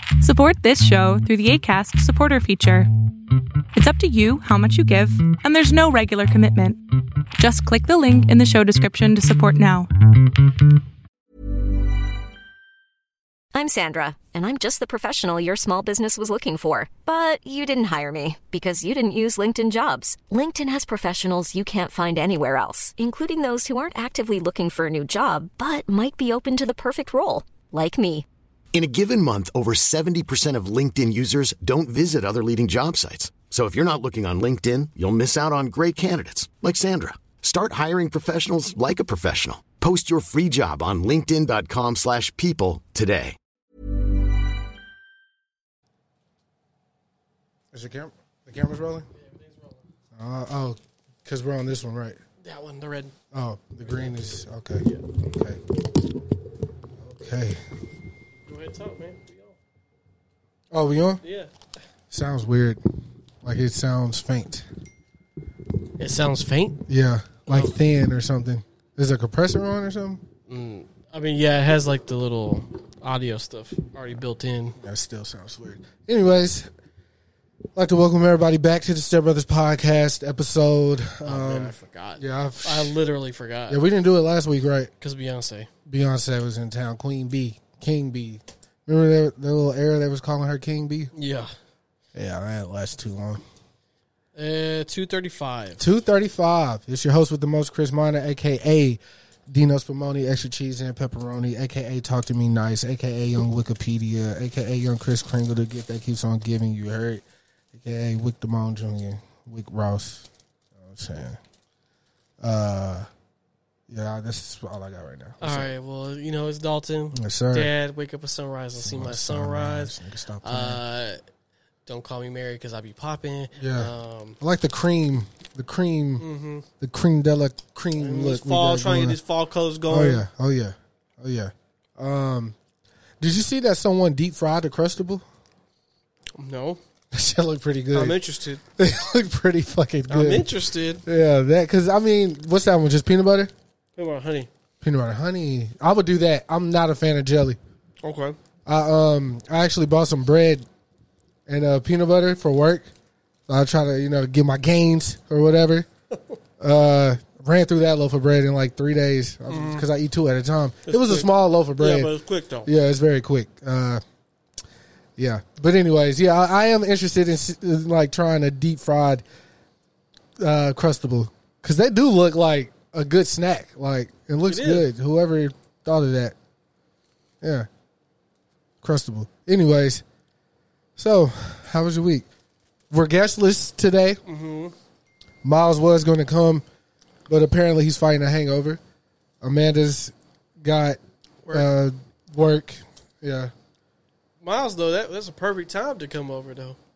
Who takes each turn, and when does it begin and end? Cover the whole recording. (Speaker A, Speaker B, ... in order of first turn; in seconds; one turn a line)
Speaker A: 0.2-2.9
Speaker A: 3.7-6.8
Speaker A: 7.4-9.9
Speaker B: 13.5-28.2
Speaker C: 28.7-43.4
Speaker D: 47.7-49.1
Speaker E: 49.1-49.8
Speaker D: 50.1-52.2
Speaker E: 52.4-53.1
Speaker D: 53.3-55.6
Speaker E: 53.9-54.2
Speaker D: 57.0-57.6
Speaker E: 58.4-59.6
Speaker D: 60.7-61.2
Speaker E: 61.2-61.5
Speaker D: 62.1-62.8
Speaker D: 63.4-64.7
Speaker E: 66.0-66.8
Speaker D: 66.9-70.2
Speaker E: 70.5-74.8
Speaker D: 74.8-76.7
Speaker D: 77.7-83.0
Speaker E: 81.2-83.8
Speaker D: 83.7-84.9
Speaker E: 85.0-85.7
Speaker D: 85.9-91.1
Speaker E: 91.1-91.5
Speaker D: 92.1-93.4
Speaker E: 94.3-95.8
Speaker D: 95.8-110.3
Speaker D: 110.8-111.4
Speaker D: 112.4-113.1
Speaker D: 113.9-115.7
Speaker E: 115.4-121.2
Speaker D: 117.1-117.7
Speaker D: 118.8-120.8
Speaker E: 121.8-124.4
Speaker D: 123.6-126.2
Speaker E: 126.2-126.6
Speaker D: 126.8-129.2
Speaker E: 128.0-130.2
Speaker D: 129.9-132.5
Speaker D: 133.2-135.2
Speaker E: 136.4-136.8
Speaker D: 137.1-138.2
Speaker E: 137.9-138.6
Speaker D: 138.8-140.5
Speaker E: 140.1-141.0
Speaker D: 141.0-143.5
Speaker E: 143.9-144.5
Speaker D: 144.8-147.6
Speaker E: 148.0-148.4
Speaker D: 148.7-150.6
Speaker D: 151.5-152.9
Speaker D: 153.5-155.9
Speaker D: 156.6-162.1
Speaker E: 159.5-159.8
Speaker E: 160.9-162.7
Speaker D: 162.6-164.0
Speaker D: 165.2-169.2
Speaker D: 170.4-176.3
Speaker E: 174.5-174.9
Speaker D: 177.4-177.7
Speaker D: 178.8-180.0
Speaker D: 181.0-182.3
Speaker D: 182.9-184.2
Speaker E: 184.2-184.7
Speaker D: 185.4-186.6
Speaker D: 187.3-188.8
Speaker D: 189.4-191.0
Speaker D: 191.5-193.5
Speaker E: 194.4-196.8